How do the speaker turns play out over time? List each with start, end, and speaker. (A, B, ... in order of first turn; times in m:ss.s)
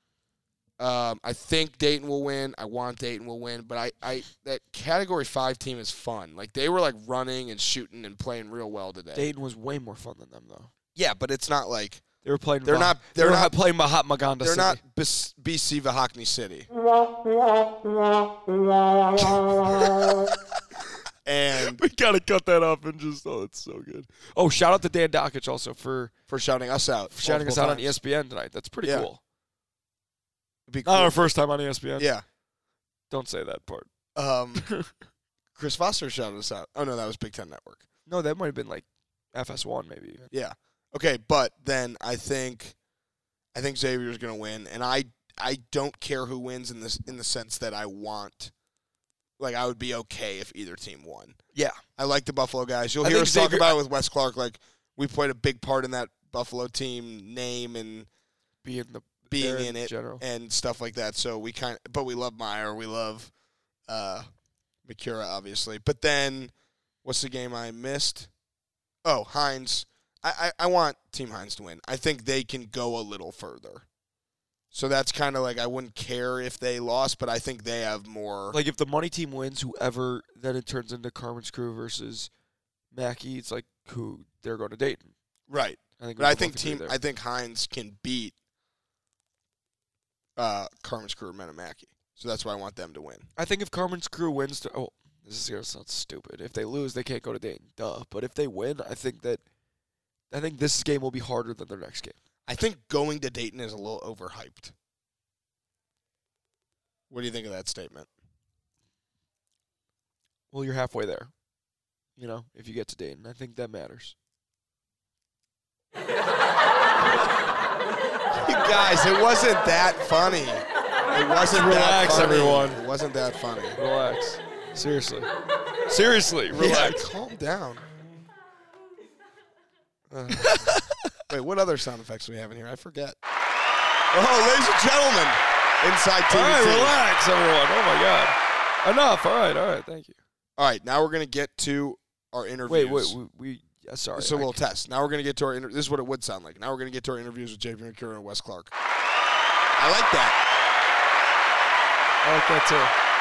0:00.8-0:09.3 A
0:09.2-0:10.7 B
0:11.0-0:12.0 A
0:12.2-0:14.8 B
0:12.6-0:13.5 A
0:14.4-0:16.7 A
0:19.7-0:20.3 B
0:21.2-0:21.8 A
0:21.6-0:26.1 B
0:26.3-0:28.0 A
0:27.1-0:29.2 B
0:30.7-0:31.2 A
0:30.8-0:32.1 B
0:32.0-0:32.2 A
0:33.1-0:33.9 B
0:34.2-0:34.7 A
0:34.6-0:34.9 B
0:35.6-0:37.8 A
0:38.1-0:40.3 B
0:40.3-0:42.8 A
0:43.5-0:48.5 A
0:49.4-0:51.4 A
0:52.0-0:58.1 A
0:53.0-0:53.8 B
0:58.6-1:00.2 B
0:59.3-1:03.3 A
1:03.9-1:04.3 A
1:04.8-1:06.5 A
1:07.0-1:08.3 A
1:09.0-1:13.8 A
1:14.7-1:18.6 A
1:18.5-1:22.3 B
1:22.9-1:25.1 B
1:25.5-1:28.3 A
1:26.0-1:27.0 B
1:30.4-1:33.3 A
1:33.4-1:39.4 B
1:40.3-1:42.2 B
1:42.5-1:44.7 A
1:47.1-1:48.1 A
1:50.5-1:51.3 B
1:52.2-1:54.2 B
1:58.3-2:03.8 A
2:01.5-2:02.8 B
2:03.8-2:05.3 B
2:05.9-2:07.0 B
2:06.5-2:07.9 A
2:10.1-2:10.8 A
2:10.3-2:11.1 B
2:11.3-2:13.2 A
2:14.1-2:17.0 A
2:16.3-2:20.2 B
2:20.6-2:23.2 A
2:22.7-2:24.6 B
2:24.2-2:28.7 A
2:29.8-2:30.4 A
2:32.2-2:32.9 B